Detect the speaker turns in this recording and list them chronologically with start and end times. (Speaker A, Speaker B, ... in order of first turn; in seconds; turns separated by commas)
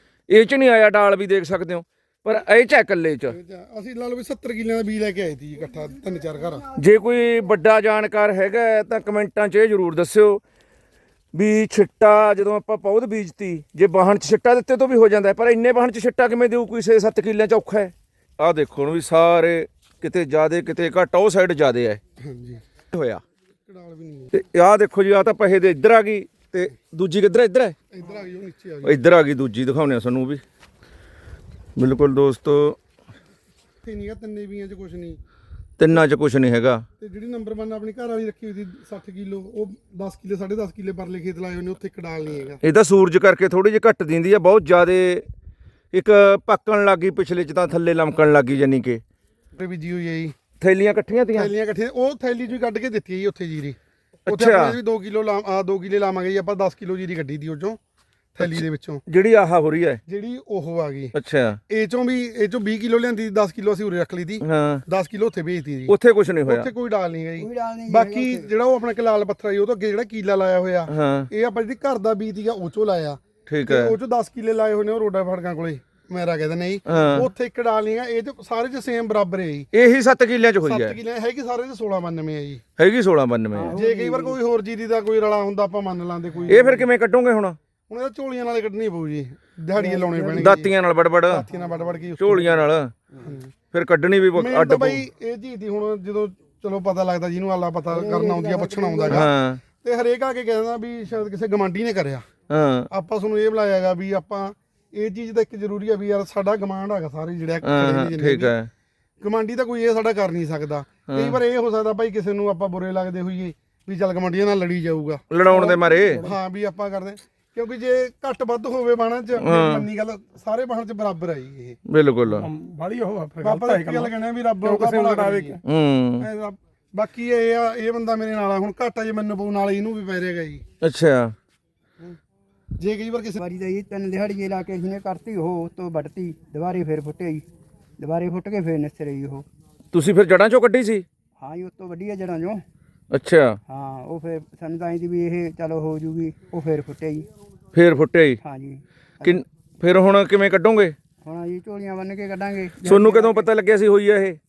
Speaker A: 0.3-3.3, Speaker B: 3.3-6.7, Speaker A: 6.8-10.4, Speaker A: 11.3-22.0, Speaker B: 22.2-22.6, Speaker A: 22.9-23.2, Speaker B: 23.6-24.3, Speaker A: 24.3-27.7, Speaker B: 27.9-29.0, Speaker A: 28.8-30.4, Speaker A: 31.8-32.8, Speaker B: 33.8-35.2, Speaker A: 35.8-36.8, Speaker B: 37.0-42.6, Speaker A: 42.6-45.2, Speaker A: 45.9-49.0, Speaker B: 49.5-50.3, Speaker A: 50.6-51.5, Speaker B: 51.3-57.8, Speaker A: 54.3-54.8, Speaker B: 58.3-59.0, Speaker A: 58.4-60.0, Speaker B: 60.1-61.1, Speaker A: 61.1-61.6, Speaker B: 61.7-65.9, Speaker A: 64.4-64.8, Speaker A: 65.9-66.7, Speaker B: 66.5-79.7, Speaker C: 67.4-68.5, Speaker A: 70.9-71.3, Speaker A: 73.5-73.9, Speaker A: 76.9-77.3, Speaker A: 79.7-80.9, Speaker B: 80.6-82.6, Speaker A: 82.8-83.7, Speaker C: 83.5-84.4, Speaker B: 83.7-86.9, Speaker A: 86.5-87.6, Speaker B: 87.9-90.7, Speaker C: 89.8-90.6, Speaker A: 90.4-91.4, Speaker B: 91.3-92.6, Speaker C: 91.5-92.1, Speaker A: 92.2-92.9, Speaker B: 93.2-93.5, Speaker A: 93.7-95.0, Speaker B: 94.3-102.3, Speaker C: 97.9-99.3, Speaker A: 99.1-99.6, Speaker A: 102.5-102.9, Speaker B: 102.9-108.5, Speaker A: 107.6-108.7, Speaker B: 109.2-121.8, Speaker A: 111.1-111.4, Speaker A: 115.3-116.2, Speaker D: 115.4-116.3, Speaker A: 119.4-119.9, Speaker A: 121.9-122.5, Speaker D: 122.3-124.1, Speaker B: 123.4-125.6, Speaker D: 124.6-125.6, Speaker A: 125.6-126.3, Speaker B: 126.2-130.6, Speaker A: 130.8-131.3, Speaker B: 132.8-133.4, Speaker C: 133.4-137.4, Speaker C: 138.0-139.4, Speaker A: 139.9-141.0, Speaker C: 141.4-142.6, Speaker A: 143.1-143.6, Speaker C: 143.7-147.3, Speaker A: 147.7-148.4, Speaker C: 148.4-149.4, Speaker A: 149.2-150.9, Speaker C: 151.2-153.5, Speaker A: 152.8-154.4